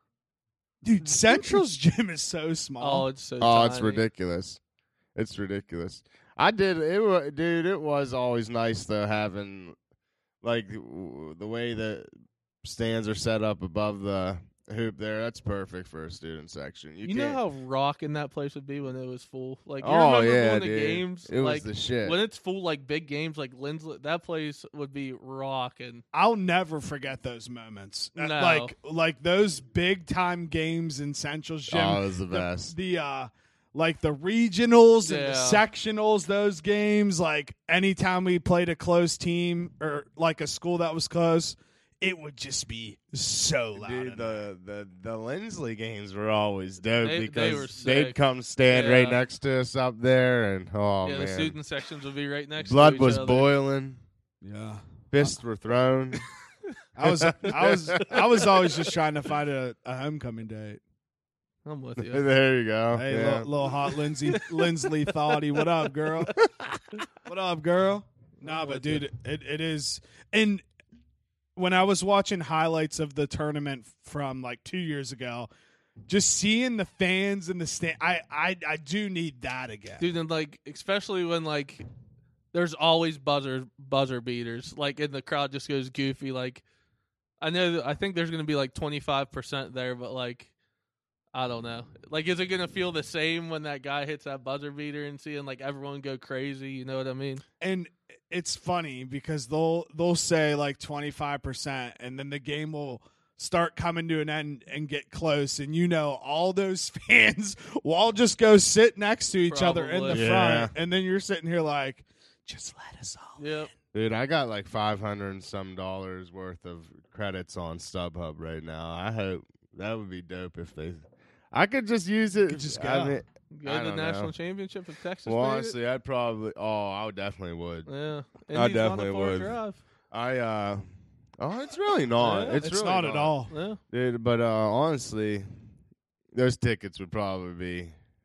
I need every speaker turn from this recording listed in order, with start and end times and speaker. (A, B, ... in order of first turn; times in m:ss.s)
0:00.8-0:03.1 A
0:02.8-0:04.0 B
0:03.4-0:04.6 C
0:05.1-0:09.8 C
0:10.4-0:12.1 C
0:12.6-0:17.4 C
0:17.0-0:26.0 B
0:19.8-0:22.2 C
0:26.1-0:44.4 A
0:28.2-0:28.7 B
0:31.7-0:32.7 C
0:35.0-0:35.6 B
0:43.8-0:51.6 C
0:47.0-0:48.2 B
0:48.7-0:49.2 B
0:51.0-0:53.5 B
0:52.6-0:54.0 C
0:54.4-0:55.4 A
0:55.1-0:56.2 C
0:57.0-1:00.8 A
0:57.0-0:58.1 C
0:58.0-0:58.5 B
1:01.6-1:02.3 B
1:02.0-1:03.5 C
1:02.9-1:06.3 A
1:04.3-1:04.9 B
1:05.6-1:06.4 B
1:06.4-1:06.8 C
1:07.2-1:10.6 A
1:08.4-1:09.1 B
1:11.6-1:15.5 A
1:16.1-1:20.1 A
1:20.0-1:21.8 B
1:22.5-1:26.6 B
1:27.4-1:30.5 B
1:31.3-1:37.4 B
1:37.6-1:53.6 A
1:49.5-1:50.3 B
1:50.1-1:50.7 C
1:53.4-1:53.7 B
1:53.9-2:04.3 C
2:02.5-2:03.2 A
2:03.5-2:05.8 B
2:05.2-2:07.9 C
2:07.9-2:09.8 B
2:08.5-2:09.6 C
2:10.1-2:13.4 C
2:12.2-2:12.7 B
2:12.6-2:13.5 A
2:13.5-2:13.8 B
2:13.9-2:15.5 C
2:16.3-2:18.0 C